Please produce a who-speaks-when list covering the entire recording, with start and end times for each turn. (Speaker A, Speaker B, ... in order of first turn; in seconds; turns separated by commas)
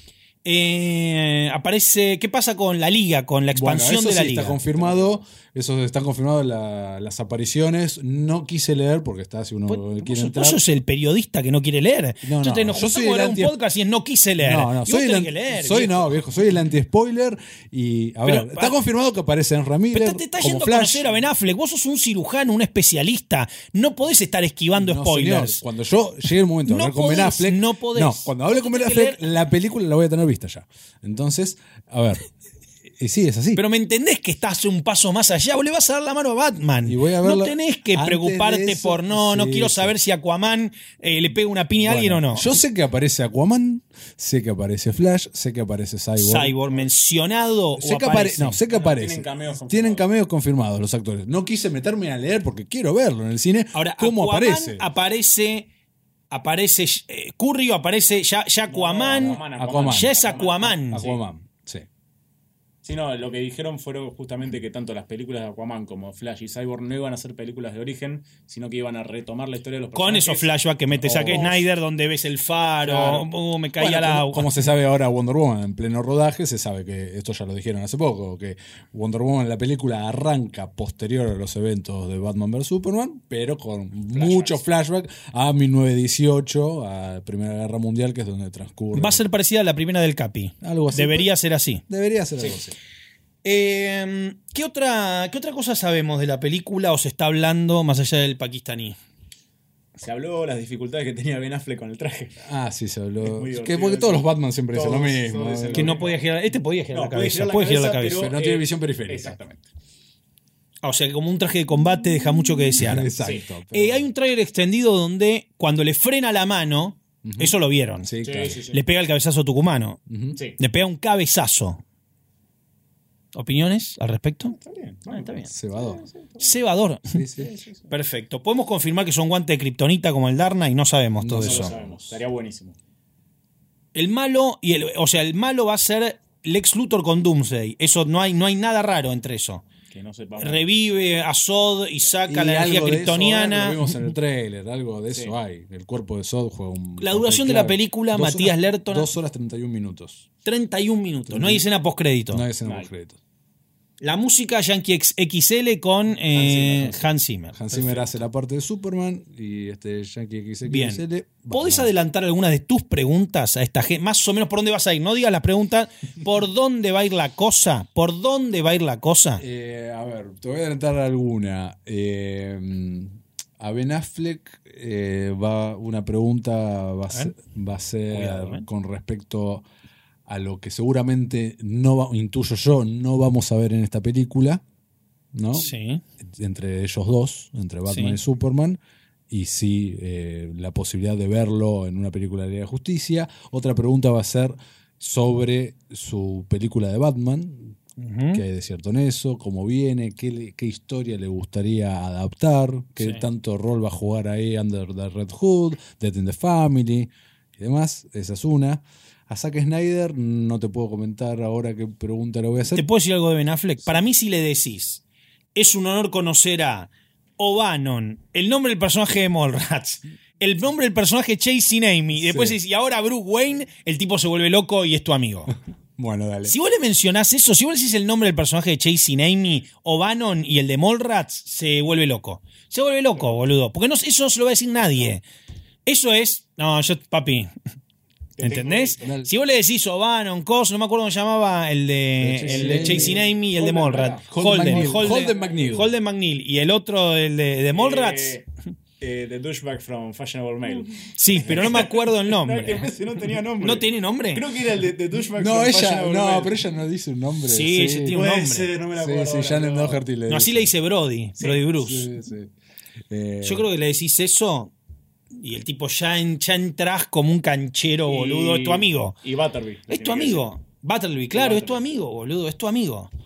Speaker A: 0.4-4.6, Speaker B: 3.5-10.6, Speaker C: 4.7-5.2, Speaker A: 9.7-16.1, Speaker B: 12.2-13.6, Speaker B: 14.4-21.1, Speaker A: 18.2-18.8, Speaker A: 19.9-25.6, Speaker B: 24.8-32.2, Speaker A: 26.7-29.2, Speaker B: 33.0-33.6, Speaker A: 33.5-42.5, Speaker B: 36.8-40.0, Speaker B: 41.9-46.6, Speaker A: 46.2-48.6, Speaker B: 47.8-54.9, Speaker C: 48.7-50.1, Speaker A: 53.7-55.7, Speaker A: 56.3-61.1, Speaker C: 58.7-61.2, Speaker B: 59.1-61.9, Speaker C: 62.8-71.6, Speaker A: 70.0-74.5, Speaker B: 71.0-71.6, Speaker C: 72.8-73.3, Speaker B: 73.8-89.2, Speaker C: 84.1-84.6, Speaker A: 88.9-91.8, Speaker B: 90.6-91.3, Speaker B: 91.9-92.8, Speaker A: 93.4-99.0, Speaker C: 100.0-102.4, Speaker B: 102.4-106.0, Speaker C: 103.2-106.2, Speaker A: 105.7-108.3, Speaker C: 106.9-109.7, Speaker B: 108.1-109.4, Speaker A: 110.8-113.1, Speaker B: 112.8-114.1, Speaker C: 113.2-113.5, Speaker A: 113.7-118.1, Speaker B: 117.2-118.7, Speaker C: 118.2-118.8, Speaker A: 118.7-120.0, Speaker B: 120.1-120.4, Speaker A: 120.6-121.8, Speaker A: 123.3-124.6, Speaker C: 124.5-126.6, Speaker A: 125.1-125.5, Speaker B: 125.5-126.0, Speaker A: 126.4-127.2, Speaker B: 127.1-127.5, Speaker C: 127.4-127.9, Speaker A: 127.9-131.7, Speaker B: 131.2-132.2, Speaker C: 131.4-132.8, Speaker A: 133.9-139.6, Speaker C: 139.9-140.7, Speaker A: 140.4-143.9, Speaker B: 142.3-150.3, Speaker A: 147.0-149.1, Speaker A: 150.4-152.4, Speaker B: 151.3-151.7, Speaker B: 152.3-153.2, Speaker C: 152.6-152.9, Speaker A: 154.0-157.6, Speaker B: 156.3-157.0, Speaker B: 157.5-161.9, Speaker C: 157.7-158.2, Speaker A: 160.7-169.4, Speaker B: 169.4-179.7, Speaker A: 178.1-178.7, Speaker B: 180.3-184.6, Speaker B: 185.3-185.7, Speaker A: 185.5-186.0, Speaker B: 186.2-197.8, Speaker A: 187.9-188.2, Speaker A: 198.0-198.4, Speaker B: 198.3-212.8, Speaker A: 203.0-203.2, Speaker A: 212.7-215.0, Speaker A: 215.6-225.5, Speaker B: 222.1-222.6, Speaker B: 226.0-226.6, Speaker A: 226.4-235.2, Speaker A: 235.9-237.5, Speaker C: 238.4-239.1, Speaker A: 238.4-248.4, Speaker B: 239.0-239.3, Speaker B: 242.2-243.2, Speaker C: 242.4-245.7, Speaker B: 244.3-245.9, Speaker C: 247.7-248.5, Speaker C: 249.0-256.6, Speaker A: 251.2-252.9, Speaker A: 253.6-254.4, Speaker B: 255.4-258.2, Speaker A: 257.4-258.7, Speaker C: 258.1-260.0, Speaker B: 258.9-260.7, Speaker A: 260.3-262.1, Speaker C: 261.4-261.7, Speaker B: 261.8-262.5, Speaker B: 263.1-263.7, Speaker A: 263.4-264.7, Speaker A: 265.4-269.2, Speaker C: 268.1-270.5, Speaker A: 269.9-273.1, Speaker C: 271.3-271.9